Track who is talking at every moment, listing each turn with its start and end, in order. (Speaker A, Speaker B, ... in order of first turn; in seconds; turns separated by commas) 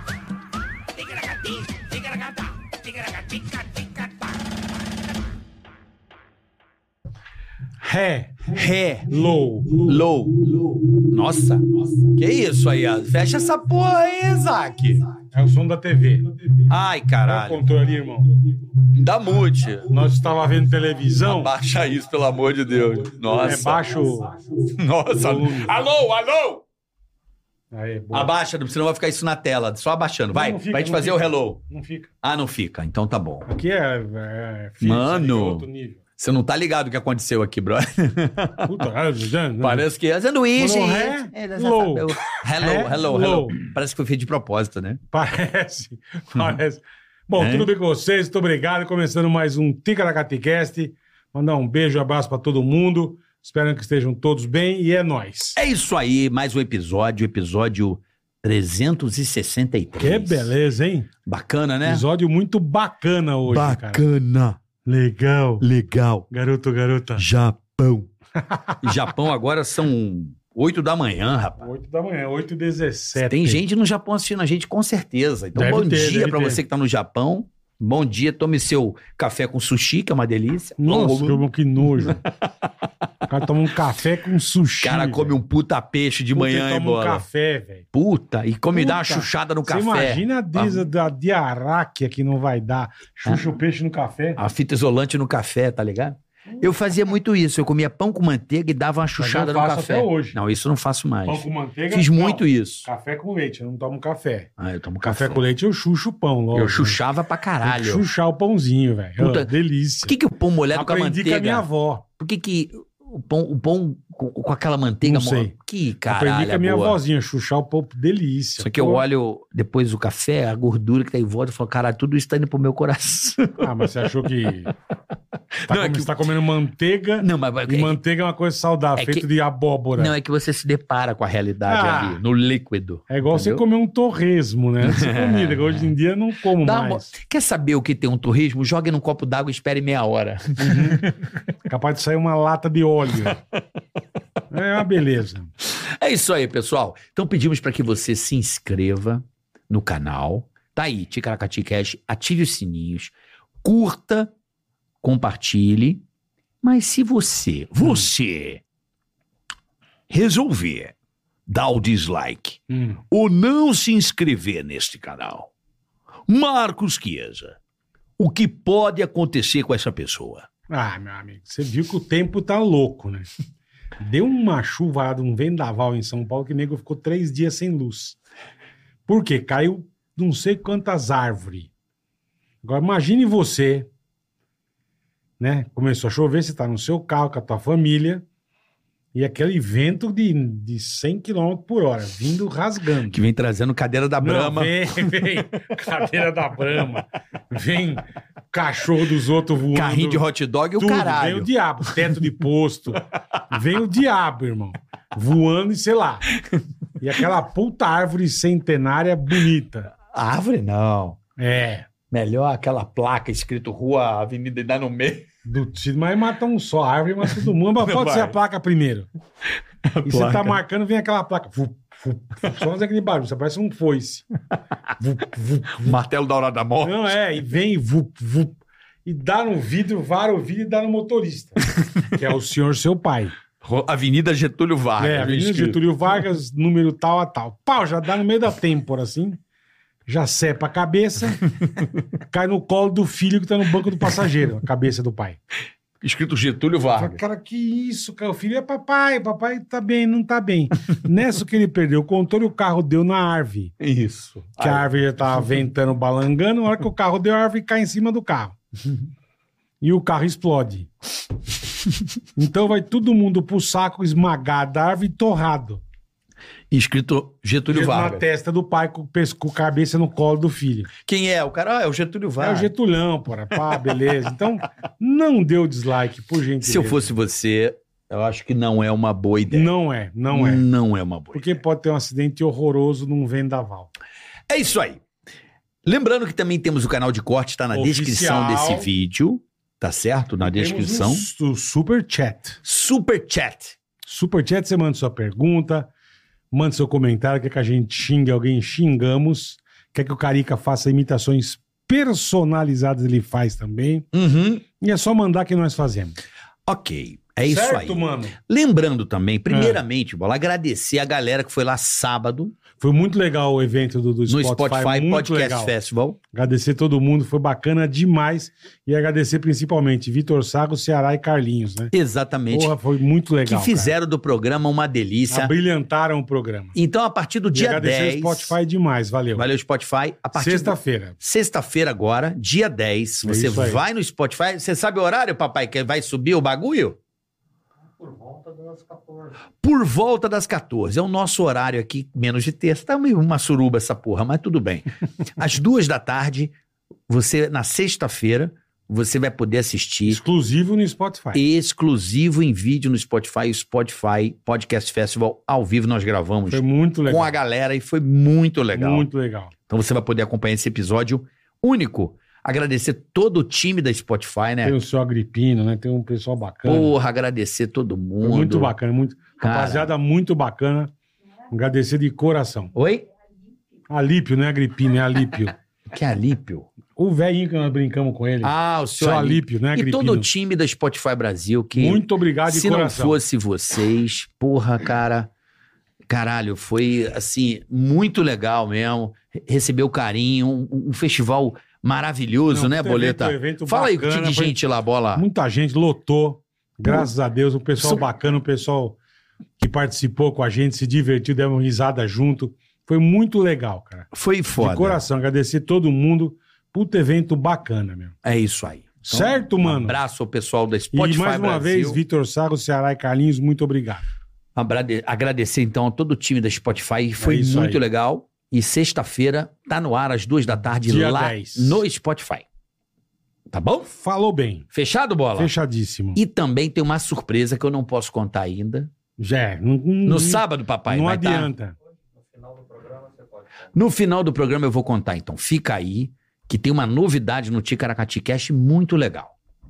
Speaker A: 2.9-3.6, Speaker B: 7.8-8.5, Speaker A: 8.5-15.0, Speaker B: 9.1-10.0, Speaker B: 15.3-16.3, Speaker A: 16.7-17.6, Speaker B: 17.2-18.4, Speaker A: 18.9-19.9, Speaker B: 19.9-21.5, Speaker A: 21.2-26.6, Speaker B: 23.3-24.4, Speaker B: 25.1-25.7, Speaker B: 27.7-28.3, Speaker A: 28.1-31.6, Speaker B: 30.3-32.1, Speaker A: 32.2-33.5, Speaker B: 33.5-36.0, Speaker A: 34.8-35.7, Speaker A: 36.2-38.8, Speaker B: 38.6-39.9, Speaker A: 39.6-45.0, Speaker B: 40.6-43.6, Speaker B: 45.1-55.6, Speaker A: 47.4-47.7, Speaker A: 55.6-60.5, Speaker B: 60.0-61.1, Speaker A: 61.3-62.0, Speaker B: 61.8-64.0, Speaker A: 63.5-64.6, Speaker B: 64.8-65.7, Speaker A: 65.6-66.3, Speaker B: 66.3-67.3, Speaker A: 67.2-68.1, Speaker B: 68.4-69.0, Speaker A: 68.8-71.7, Speaker B: 71.6-73.6, Speaker A: 73.2-81.4, Speaker B: 75.5-76.6, Speaker B: 80.8-82.2, Speaker A: 82.0-82.3, Speaker B: 83.3-85.3, Speaker A: 84.8-87.2, Speaker B: 86.3-87.8, Speaker A: 87.9-90.8, Speaker B: 88.7-94.4, Speaker A: 94.4-102.9, Speaker B: 99.2-100.4, Speaker B: 101.3-104.5, Speaker A: 104.6-105.4, Speaker B: 105.0-107.0, Speaker A: 106.5-108.0, Speaker B: 107.6-110.2, Speaker A: 109.2-109.5, Speaker A: 110.0-111.7, Speaker B: 110.7-112.0, Speaker A: 112.2-117.0, Speaker B: 115.0-115.5, Speaker B: 116.1-119.0, Speaker A: 118.6-123.7, Speaker B: 123.6-124.7, Speaker A: 125.7-126.2, Speaker B: 125.7-130.1, Speaker A: 127.2-128.0, Speaker A: 129.0-129.3, Speaker A: 129.9-133.6, Speaker B: 131.7-132.2, Speaker B: 133.1-137.1, Speaker A: 134.8-135.9, Speaker A: 136.6-141.2, Speaker B: 140.6-141.1, Speaker B: 141.7-143.4, Speaker B: 144.5-145.5, Speaker A: 145.8-154.3, Speaker A: 155.0-156.0, Speaker A: 156.6-158.6, Speaker A: 160.1-160.9, Speaker A: 161.5-165.5, Speaker B: 162.7-163.0, Speaker A: 166.3-167.6, Speaker A: 168.2-170.5, Speaker B: 170.7-173.3, Speaker B: 174.0-178.2, Speaker B: 179.1-181.7, Speaker B: 182.6-183.9, Speaker B: 185.4-188.2, Speaker B: 189.1-193.2, Speaker A: 193.1-195.5, Speaker B: 194.2-200.2, Speaker A: 199.7-202.0, Speaker B: 200.8-206.3, Speaker B: 207.0-209.9, Speaker A: 210.1-211.2, Speaker B: 211.4-211.9, Speaker A: 212.1-215.3, Speaker B: 215.5-219.1, Speaker A: 217.3-218.3, Speaker A: 219.9-220.6, Speaker B: 220.0-224.3, Speaker B: 225.0-226.0, Speaker A: 225.8-227.1, Speaker B: 226.8-233.3, Speaker A: 231.8-232.2, Speaker A: 233.6-235.8, Speaker B: 235.0-239.4, Speaker B: 240.1-241.4, Speaker B: 242.3-245.4, Speaker A: 246.0-247.2, Speaker B: 247.0-253.7, Speaker A: 253.8-254.9, Speaker B: 254.6-258.6, Speaker B: 259.8-260.9, Speaker B: 262.4-265.8, Speaker A: 266.7-268.2, Speaker B: 267.7-270.9, Speaker A: 271.0-272.7, Speaker B: 272.4-277.1, Speaker A: 273.5-274.0, Speaker A: 276.6-279.7, Speaker B: 279.5-280.7, Speaker A: 280.3-281.5, Speaker B: 281.3-283.9, Speaker A: 284.5-285.0, Speaker A: 285.9-291.3, Speaker B: 287.7-288.9, Speaker B: 290.4-292.6, Speaker A: 292.6-293.8, Speaker B: 294.1-295.9, Speaker B: 296.5-304.1, Speaker A: 304.1-304.6, Speaker B: 304.8-306.2, Speaker A: 306.7-312.6, Speaker B: 307.4-308.4, Speaker B: 309.5-309.8, Speaker B: 312.8-315.7, Speaker A: 314.3-316.2, Speaker B: 316.3-321.9, Speaker A: 321.9-322.8, Speaker B: 322.5-323.9, Speaker A: 323.5-325.5, Speaker B: 325.3-326.8, Speaker A: 326.8-328.5, Speaker B: 327.5-329.5, Speaker A: 329.4-337.0, Speaker B: 330.4-331.1, Speaker B: 333.2-333.8, Speaker A: 338.5-338.8, Speaker A: 339.5-346.6, Speaker A: 347.1-350.2, Speaker B: 350.1-351.4, Speaker A: 351.3-359.1, Speaker B: 356.5-357.3, Speaker B: 358.7-359.5, Speaker A: 359.7-364.8, Speaker B: 364.6-366.9, Speaker A: 366.6-368.7, Speaker B: 368.2-370.9, Speaker A: 369.4-369.9, Speaker B: 371.5-372.7, Speaker A: 372.8-373.1, Speaker B: 373.9-375.6, Speaker A: 375.9-376.7, Speaker B: 376.9-380.3, Speaker A: 378.4-385.3, Speaker B: 381.8-383.2, Speaker A: 386.1-395.2, Speaker B: 392.5-394.6, Speaker B: 395.1-399.0, Speaker B: 399.6-408.1, Speaker A: 404.1-405.0, Speaker A: 408.2-412.0, Speaker B: 409.1-410.0, Speaker B: 410.9-414.1, Speaker A: 414.6-422.4, Speaker B: 417.2-417.8, Speaker B: 420.8-421.8, Speaker A: 423.5-423.9, Speaker B: 423.9-424.7, Speaker A: 424.7-425.5, Speaker B: 425.4-426.2, Speaker A: 426.1-428.9, Speaker B: 429.2-431.8, Speaker A: 430.1-431.5, Speaker A: 432.5-439.4